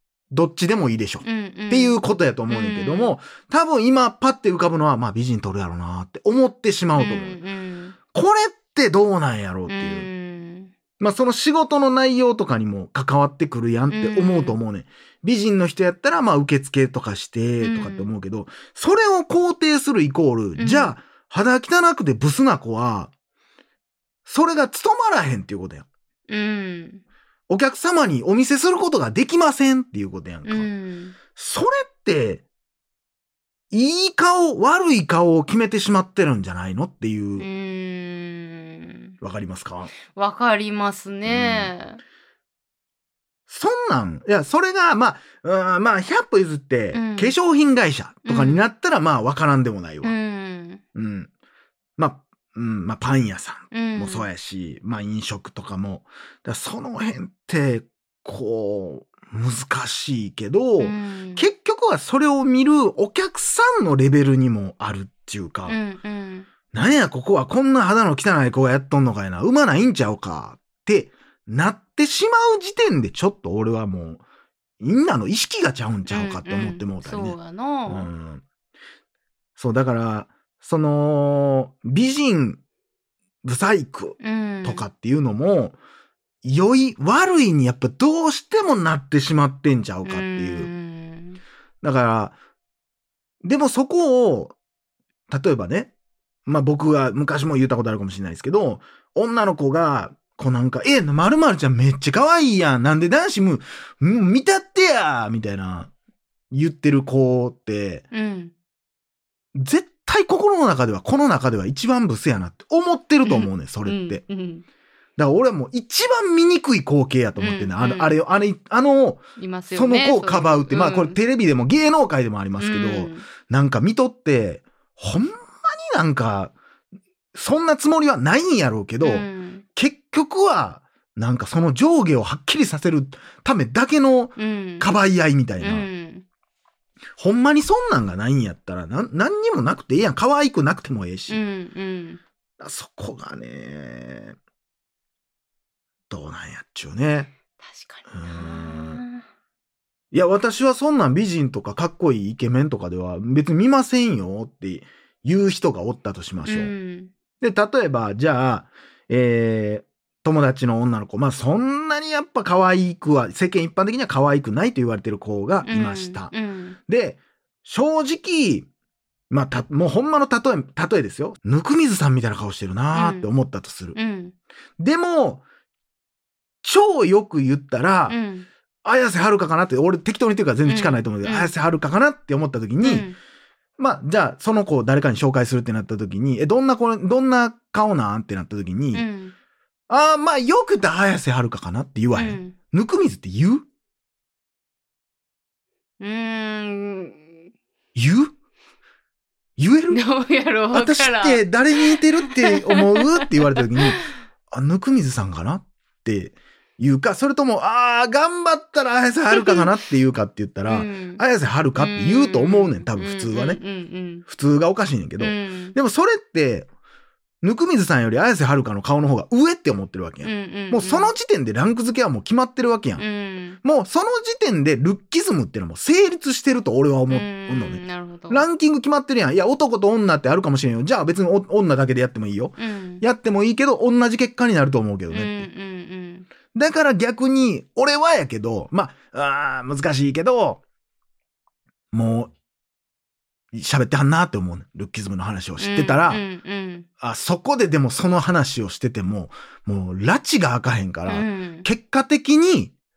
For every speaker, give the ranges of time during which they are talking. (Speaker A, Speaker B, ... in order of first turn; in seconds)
Speaker A: 0.3-7.4, 8.1-10.1, 11.0-23.1, 24.2-25.9, 27.5-30.7, 31.3-32.4, 33.7-37.5, 39.2-40.0, 41.2-41.7, 43.5-50.1, 50.9-51.3, 52.0-65.8, 66.7-74.2, 74.8-77.4, 77.9-78.4, 79.6-82.6, 83.4-85.8, 86.4-90.7, 91.8-92.4, 93.4-94.5, 95.3-95.9, 96.5-105.9, 106.5-108.1, 109.5-114.2, 115.2-126.5, 127.3-135.9, 137.2-141.4, 142.6-144.4, 146.1-147.3, 148.1-149.0, 150.1-156.7, 157.4-166.3, 166.9-168.7, 169.3-174.0, 174.8-175.4, 176.6-178.2, 178.8-183.1, 183.8-189.1, 189.9-193.7, 197.9-198.3, 199.6-200.0, 200.7-213.6, 214.3-216.7, 217.4-223.0, 223.6-235.5, 236.5-240.6, 241.9-242.3, 243.5-246.2, 247.0-252.7
Speaker B: 1.2-3.2, 6.9-8.0, 9.7-10.7, 13.9-14.6, 17.6-18.1, 20.6-21.0, 26.3-27.0, 30.5-31.2, 37.4-39.1, 40.0-42.0, 46.9-47.3, 48.2-48.6, 50.0-50.8, 53.7-54.3, 60.8-61.5, 65.7-66.5, 76.1-78.1, 84.2-84.9, 90.0-91.4, 108.1-108.5, 113.2-114.7, 117.4-118.2, 119.4-121.2, 122.6-123.3, 129.0-129.7, 134.4-135.0, 135.6-136.2, 141.3-142.2, 147.6-149.2, 156.4-157.1, 165.7-166.8, 172.9-173.3, 173.9-174.3, 178.1-178.5, 180.7-181.5, 182.8-183.2, 188.9-189.3, 192.1-192.6, 196.0-197.4, 199.9-204.0, 209.3-209.7, 210.7-211.2, 211.8-214.2, 215.2-215.8, 220.2-221.1, 223.0-223.6, 227.1-228.4, 232.6-233.0, 235.1-236.3, 245.6-246.9, 251.1-251.7